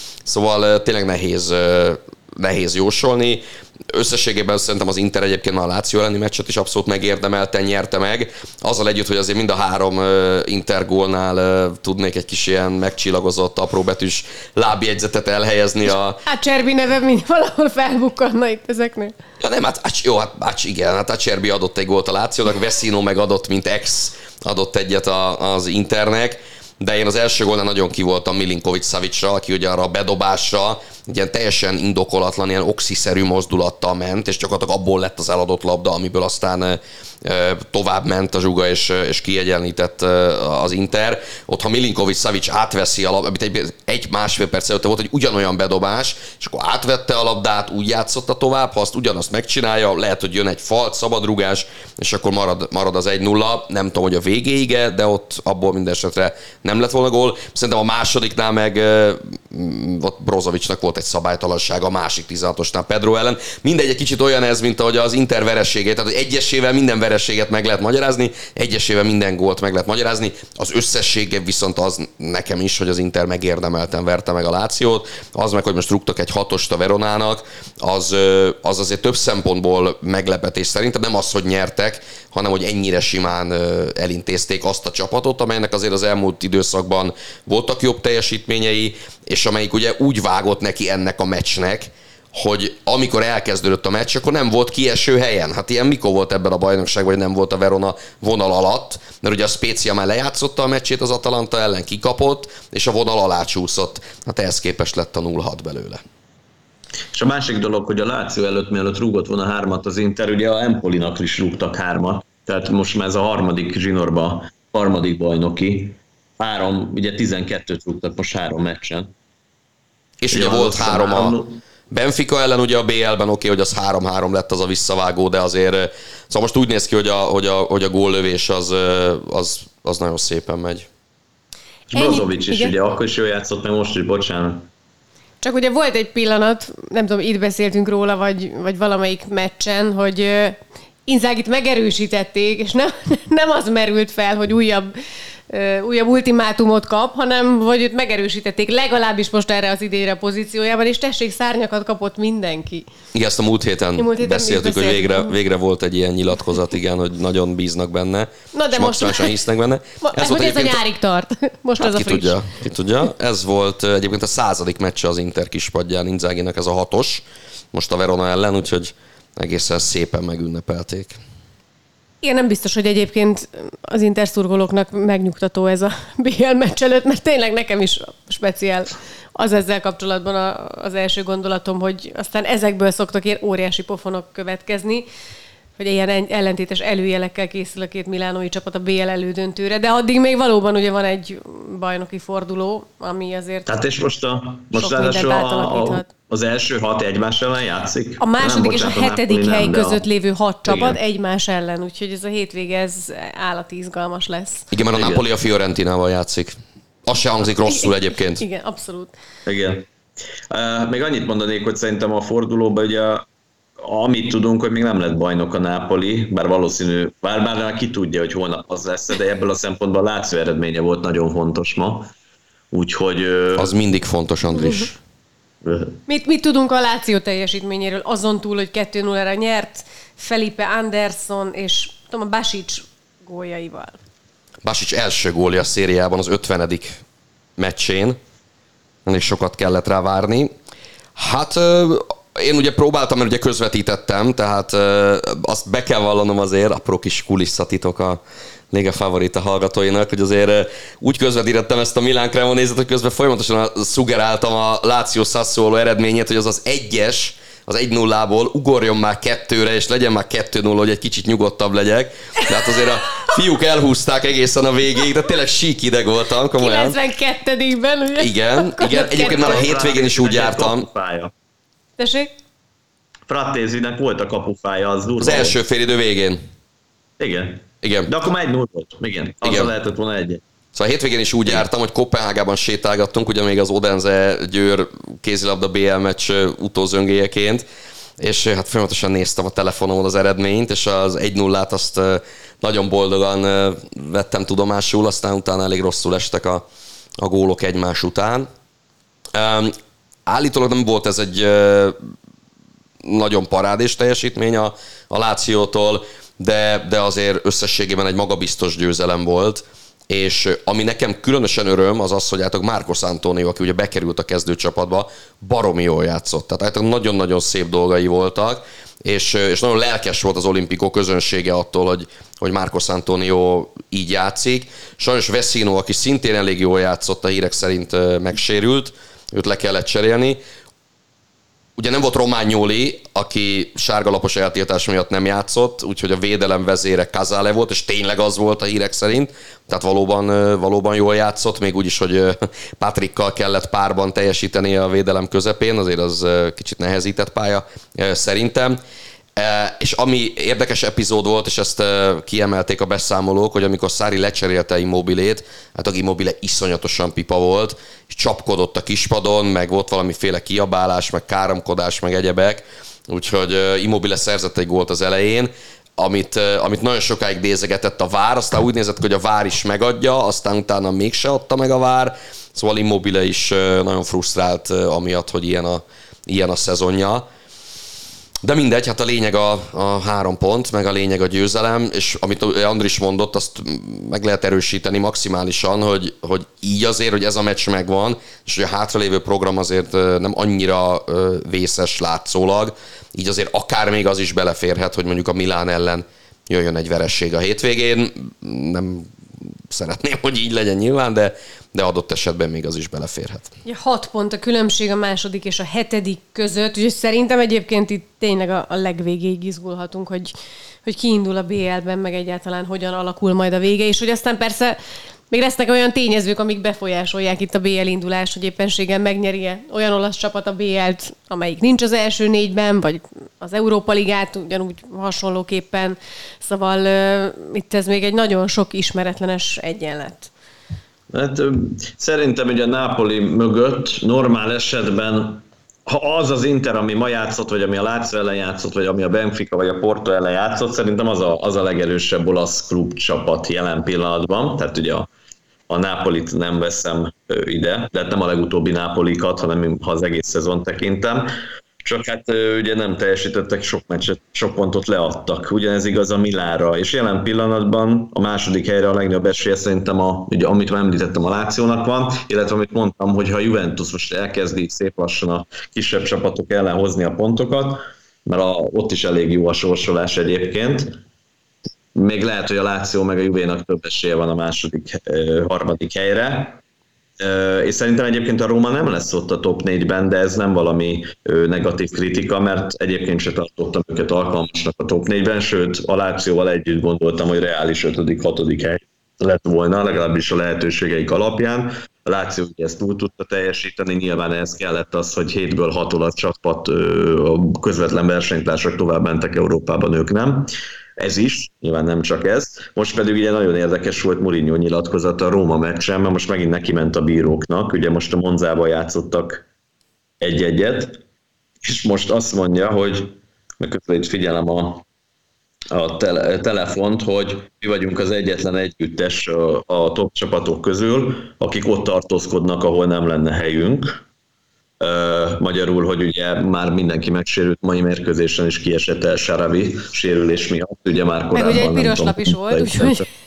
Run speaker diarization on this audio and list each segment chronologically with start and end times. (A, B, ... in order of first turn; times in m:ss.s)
0:00.2-0:16.2 A
0:16.2-0:19.1 B
0:19.4-1:46.0 A
1:47.1-1:59.1 C
2:00.2-2:01.4 A
2:00.3-2:01.6 C
2:01.9-2:10.9 A
2:11.9-2:14.7 C
2:11.9-2:12.7 B
2:15.4-2:24.9 B
2:25.5-2:32.8 B
2:33.1-2:40.8 A
2:34.0-2:35.3 B
2:38.5-2:39.4 B
2:40.0-2:42.4 B
2:41.8-2:51.2 A
2:52.2-3:05.0 B
3:05.8-3:13.7 B
3:13.6-3:20.0 C
3:14.7-3:16.1 B
3:18.2-3:24.7 B
3:20.6-3:21.0 C
3:24.7-3:26.5 A
3:24.9-3:25.2 C
3:27.0-3:28.4 A
3:27.7-3:29.1 B
3:29.4-3:29.8 C
3:30.5-3:33.2 C
3:33.8-3:42.1 C
3:42.7-3:43.7 C
3:43.6-3:45.0 A
3:44.5-3:44.9 B
3:45.6-3:46.0 C
3:46.1-3:54.0 B
3:54.6-3:57.0 A
3:57.6-3:58.2 A
3:59.0-4:00.5 A
4:01.2-4:08.2 A
4:08.7-4:27.0 A
4:26.6-4:29.6 B
4:28.2-4:30.8 A
4:28.9-4:31.3 C
4:32.0-4:32.3 B
4:33.3-4:35.6 C
4:35.2-4:36.4 A
4:37.2-4:40.4 C
4:37.8-4:38.1 A
4:39.4-4:39.7 A
4:40.7-4:47.6 A
4:48.2-4:56.6 A
4:57.2-4:58.5 A
4:59.3-4:59.7 A
5:00.2-5:02.0 A
5:03.0-5:30.4 A
5:31.8-5:48.8 A
5:49.4-6:17.2 A
6:18.4-6:43.5 A
6:43.6-6:50.3 B
6:50.8-6:54.8 B
6:55.3-7:10.3 B
7:11.1-7:25.1 C
7:25.7-7:31.3 C
7:31.8-7:51.0 C
7:51.9-7:56.6 C
7:57.2-8:29.4 C
8:30.2-8:31.0 C
8:31.6-8:34.8 C
8:35.7-8:44.0 C
8:44.8-8:53.0 C
8:51.3-8:53.0 B